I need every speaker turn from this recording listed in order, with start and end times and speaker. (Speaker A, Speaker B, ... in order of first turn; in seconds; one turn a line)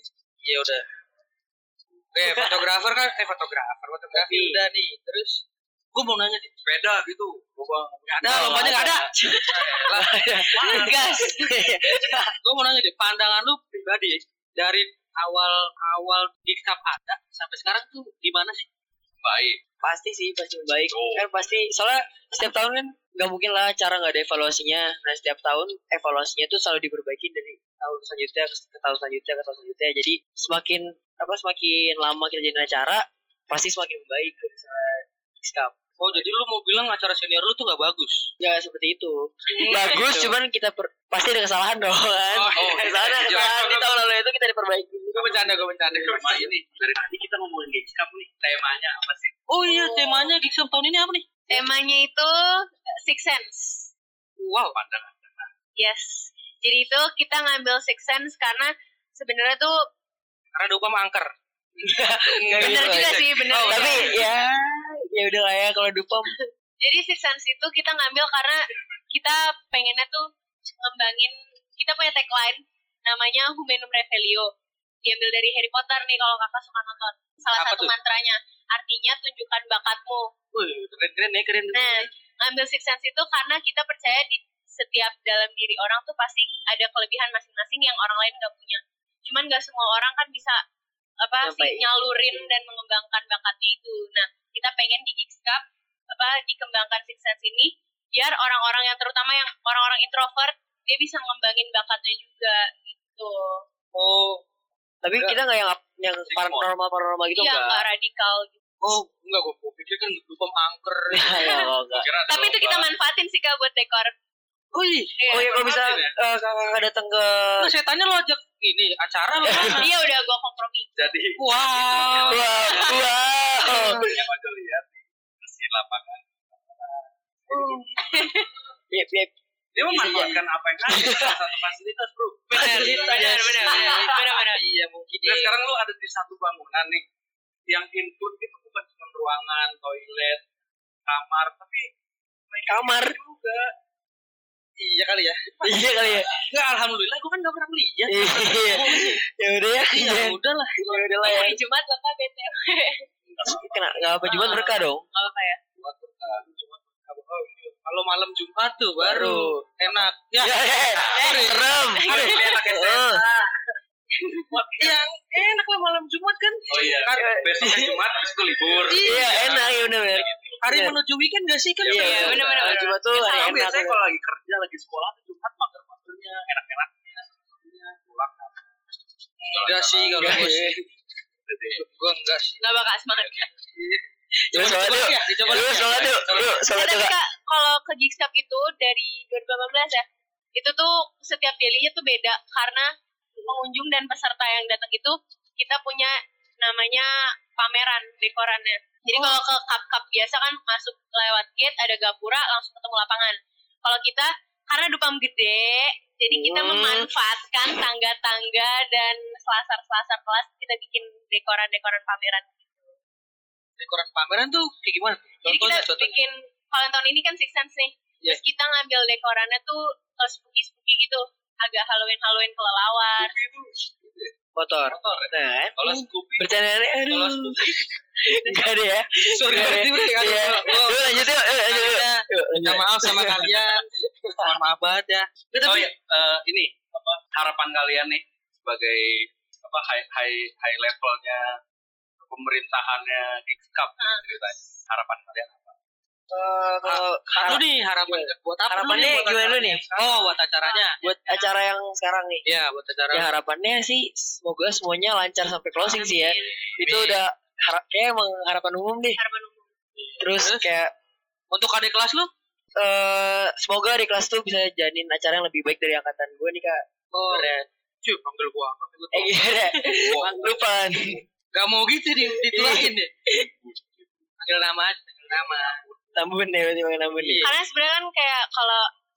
Speaker A: 0.4-0.8
Speaker A: 2.1-5.4
Speaker B: 2.2-2.6
Speaker B: 4.1-4.6
Speaker A: 5.9-6.5
Speaker C: 6.7-9.9
Speaker A: 8.1-11.2
Speaker B: 8.2-12.3
Speaker C: 10.5-11.1
Speaker A: 12.4-18.7
Speaker C: 19.2-19.6
Speaker B: 19.8-36.2
Speaker C: 20.9-21.3
Speaker A: 36.0-38.3
Speaker B: 38.4-45.6
Speaker D: 39.6-39.9
Speaker A: 39.6-40.3
Speaker A: 42.3-43.6
Speaker C: 42.5-43.9
Speaker A: 45.1-46.5
Speaker C: 45.3-49.4
Speaker A: 49.5-51.3
Speaker D: 49.7-50.3
Speaker D: 51.5-53.9
Speaker A: 54.4-54.8
Speaker C: 54.7-55.5
Speaker D: 55.8-59.8
Speaker A: 60.5-61.3
Speaker B: 61.8-66.3
Speaker A: 62.4-64.2
Speaker D: 62.5-64.2
Speaker C: 62.9-63.2
Speaker D: 66.8-70.3
Speaker D: 70.8-74.5
Speaker D: 75.0-80.3
Speaker A: 77.6-77.9
Speaker A: 80.5-82.1
Speaker D: 81.7-90.6
Speaker D: 91.2-95.6
Speaker B: 91.4-92.4
Speaker D: 96.1-103.6
Speaker A: 103.9-104.4
Speaker B: 105.0-107.9
Speaker C: 106.3-106.7
Speaker D: 107.3-108.5
Speaker A: 108.8-111.5
Speaker B: 111.1-112.1
Speaker D: 111.3-111.7
Speaker C: 111.9-112.9
Speaker D: 112.3-114.1
Speaker A: 114.7-115.4
Speaker D: 115.2-115.5
Speaker B: 115.3-117.7
Speaker C: 115.3-116.2
Speaker A: 117.6-119.9
Speaker B: 119.4-119.9
Speaker D: 119.7-120.9
Speaker C: 121.0-123.0
Speaker A: 121.4-122.6
Speaker B: 122.3-124.1
Speaker D: 122.6-123.0
Speaker C: 123.6-126.9
Speaker A: 123.7-124.1
Speaker D: 127.6-128.5
Speaker B: 128.9-129.3
Speaker C: 129.8-134.1
Speaker B: 129.8-131.4
Speaker B: 132.5-134.0
Speaker A: 132.5-135.6
Speaker D: 132.6-134.6
Speaker C: 135.2-137.0
Speaker C: 137.7-140.4
Speaker C: 141.1-141.9
Speaker C: 142.5-143.7
Speaker B: 142.7-143.2
Speaker A: 144.8-149.2
Speaker B: 145.6-146.3
Speaker B: 148.1-151.6
Speaker A: 149.8-151.1
Speaker D: 151.2-153.1
Speaker B: 153.4-155.1
Speaker D: 154.2-155.6
Speaker A: 155.8-163.2
Speaker B: 159.0-159.6
Speaker B: 160.4-163.2
Speaker C: 160.8-161.4
Speaker D: 161.2-162.6
Speaker C: 162.1-163.2
Speaker D: 164.2-164.5
Speaker C: 164.5-165.0
Speaker A: 164.8-167.4
Speaker C: 166.7-170.6
Speaker B: 167.2-168.0
Speaker A: 168.9-169.6
Speaker B: 169.0-171.0
Speaker A: 170.6-172.6
Speaker C: 171.8-178.6
Speaker B: 171.9-174.0
Speaker D: 171.9-173.6
Speaker A: 179.4-180.8
Speaker C: 179.5-180.5
Speaker B: 180.2-180.8
Speaker C: 181.5-181.8
Speaker A: 181.7-182.6
Speaker D: 182.6-183.5
Speaker B: 184.5-187.1
Speaker A: 184.5-186.5
Speaker C: 185.3-186.6
Speaker D: 186.7-192.9
Speaker D: 193.4-212.9
Speaker B: 206.3-207.1
Speaker A: 213.8-216.2
Speaker D: 215.4-223.3
Speaker C: 223.2-224.3
Speaker B: 224.6-234.6
Speaker C: 224.9-227.8
Speaker A: 229.2-233.9
Speaker A: 234.4-235.9
Speaker C: 235.6-241.5
Speaker C: 242.2-245.8
Speaker B: 246.3-249.9
Speaker A: 246.8-251.0
Speaker D: 250.6-251.5
Speaker B: 251.0-252.4
Speaker A: 252.5-253.3
Speaker B: 253.1-259.2
Speaker D: 255.8-256.6
Speaker C: 256.8-257.1
Speaker A: 256.9-257.1
Speaker D: 259.2-260.2
Speaker B: 260.2-260.9
Speaker A: 260.4-260.7
Speaker A: 261.5-262.3
Speaker B: 262.8-267.6
Speaker A: 267.1-270.6
Speaker B: 269.1-271.2
Speaker C: 269.9-270.5
Speaker A: 271.5-273.1
Speaker B: 272.2-273.5
Speaker C: 273.3-273.9
Speaker A: 274.4-275.8
Speaker B: 276.1-277.5
Speaker A: 277.1-277.5
Speaker D: 277.4-278.9